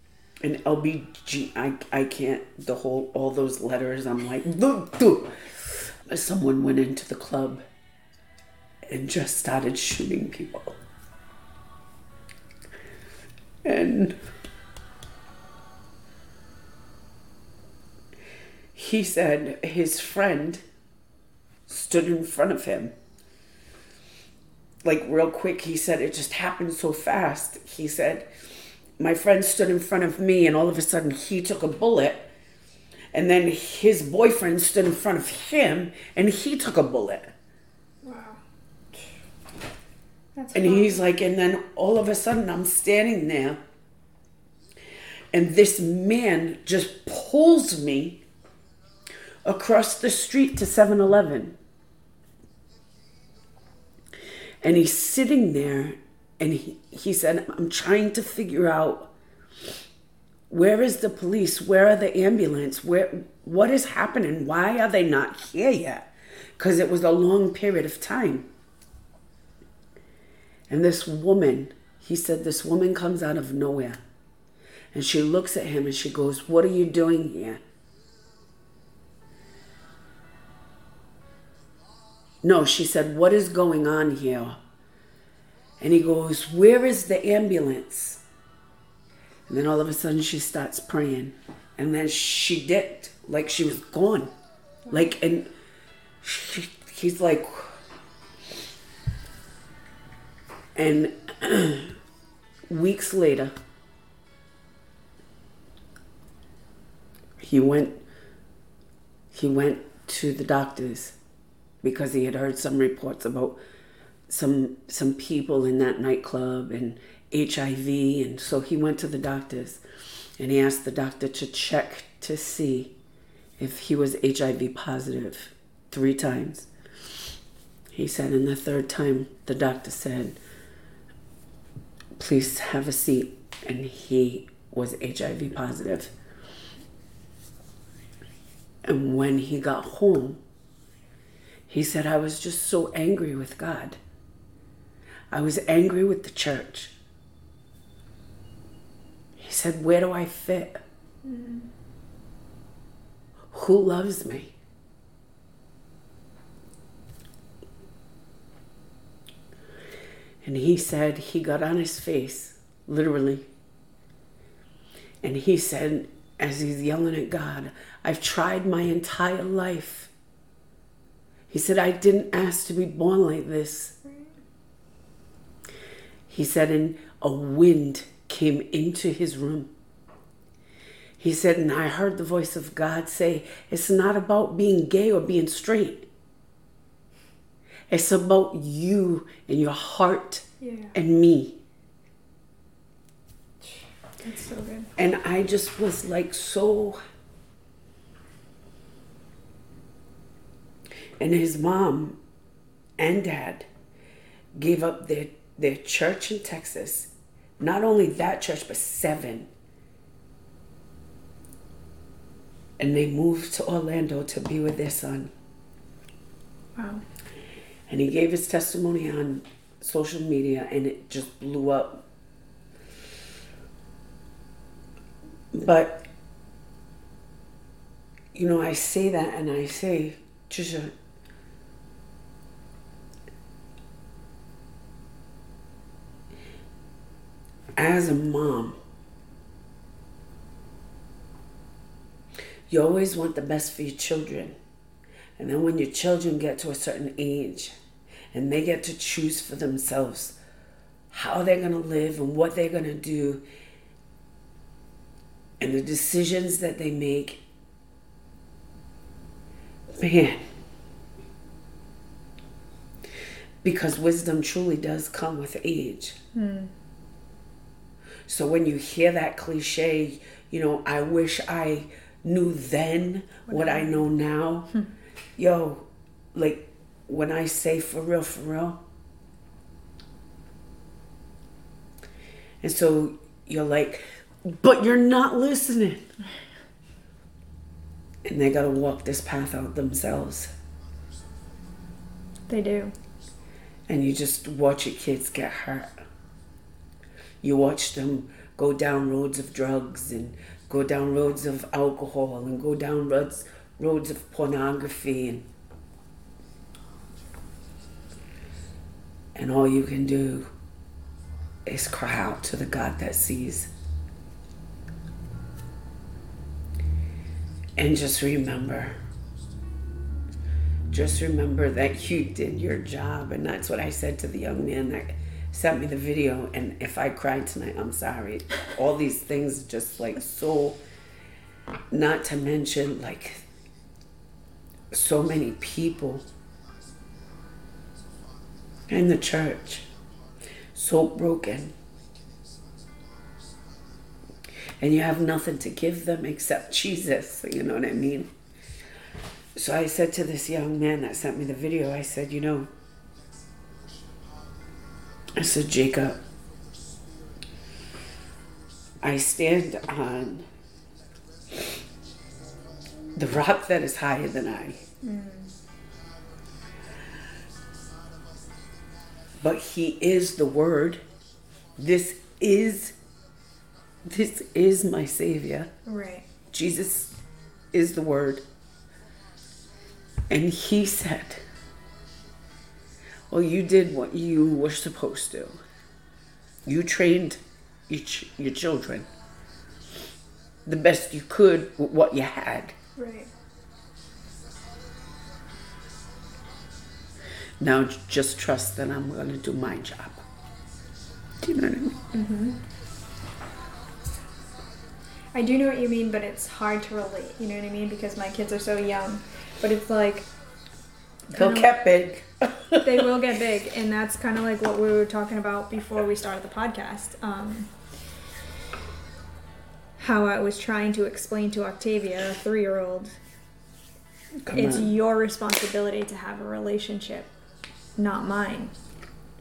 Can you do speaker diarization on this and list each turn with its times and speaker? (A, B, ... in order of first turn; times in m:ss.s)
0:00.4-0:07.6 A
0:08.9-0:10.8 A
0:13.6-0:14.2 A
0:18.7-0:20.6 A
0:21.7-0:22.9 A
0:24.8-0:28.3 A
0:29.0-0:32.3 A
0:33.1-0:37.3 A
0:38.0-0:38.4 B
0:40.4-0:41.0 B
0:40.5-0:43.6 A
0:45.3-0:48.2 A
0:49.4-0:51.6 A
0:54.6-0:59.1 A
1:00.5-1:06.1 A
1:06.6-1:08.5 A
1:10.7-1:14.0 A
1:14.9-1:17.6 A
1:22.4-1:24.6 A
1:25.8-1:28.2 A
1:29.5-1:34.3 A
1:34.9-1:35.5 A
1:36.2-1:37.8 A
1:40.7-1:41.9 A
1:42.7-1:43.5 A
1:47.4-1:48.0 A
1:49.3-1:51.2 A
1:51.8-1:53.6 A
1:54.3-1:59.8 A
2:00.4-2:02.9 A
2:03.6-2:06.7 A
2:07.9-2:10.4 A
2:12.2-2:16.1 A
2:18.8-2:20.4 A
2:21.7-2:24.0 A
2:25.3-2:26.9 A
2:29.4-2:30.8 A
2:31.2-2:31.7 B
2:33.5-2:34.5 A
2:40.4-2:43.5 A
2:45.2-2:50.1 A
2:51.5-2:54.0 A
2:56.3-2:59.7 A
3:01.2-3:06.1 A
3:07.9-3:11.6 A
3:10.6-3:10.9 B
3:13.6-3:14.9 B
3:15.0-3:17.0 A
3:21.2-3:22.2 A
3:23.0-3:23.7 A
3:24.6-3:29.5 A
3:32.8-3:35.3 A
3:36.8-3:37.0 B
3:37.9-3:42.0 A
3:45.5-3:46.0 A
3:48.3-3:50.9 A
3:57.8-3:58.8 A
4:02.7-4:04.6 A
4:05.4-4:07.7 A
4:08.3-4:10.4 A
4:11.1-4:13.4 A
4:15.6-4:17.4 A
4:19.9-4:20.4 A
4:23.6-4:26.2 A
4:26.3-4:26.7 B
4:28.3-4:34.7 A
4:33.5-4:34.0 B
4:35.4-4:38.8 A
4:42.6-4:46.1 A
4:48.2-4:50.5 A
4:52.5-4:52.9 B
4:53.9-4:55.9 A
4:57.4-5:05.5 A
5:09.3-5:10.5 A
5:11.6-5:13.7 A
5:17.8-5:18.9 A
5:20.9-5:30.8 A
5:31.9-5:33.4 A
5:34.9-5:36.3 A
5:38.9-5:39.9 A
5:40.7-5:41.7 A
5:44.8-5:48.3 A
5:49.6-5:52.7 A
5:55.3-5:56.2 A
5:59.0-6:00.5 A
6:03.2-6:04.8 A
6:05.0-6:05.5 B
6:09.4-6:11.0 A
6:11.8-6:13.0 A
6:14.0-6:15.7 A
6:15.8-6:16.2 B
6:16.5-6:17.1 A
6:17.7-6:18.4 A
6:20.3-6:21.4 A
6:23.3-6:25.6 A
6:26.6-6:29.1 A
6:30.6-6:32.8 A
6:33.0-6:33.3 B
6:37.6-6:40.2 A
6:41.4-6:42.1 A
6:42.1-6:42.6 B
6:45.3-6:50.3 B
6:51.3-6:53.1 A
6:51.3-6:51.8 B
6:52.8-6:57.7 B
7:00.0-7:03.2 B
7:04.4-7:04.9 A
7:04.5-7:07.3 B
7:08.0-7:08.7 B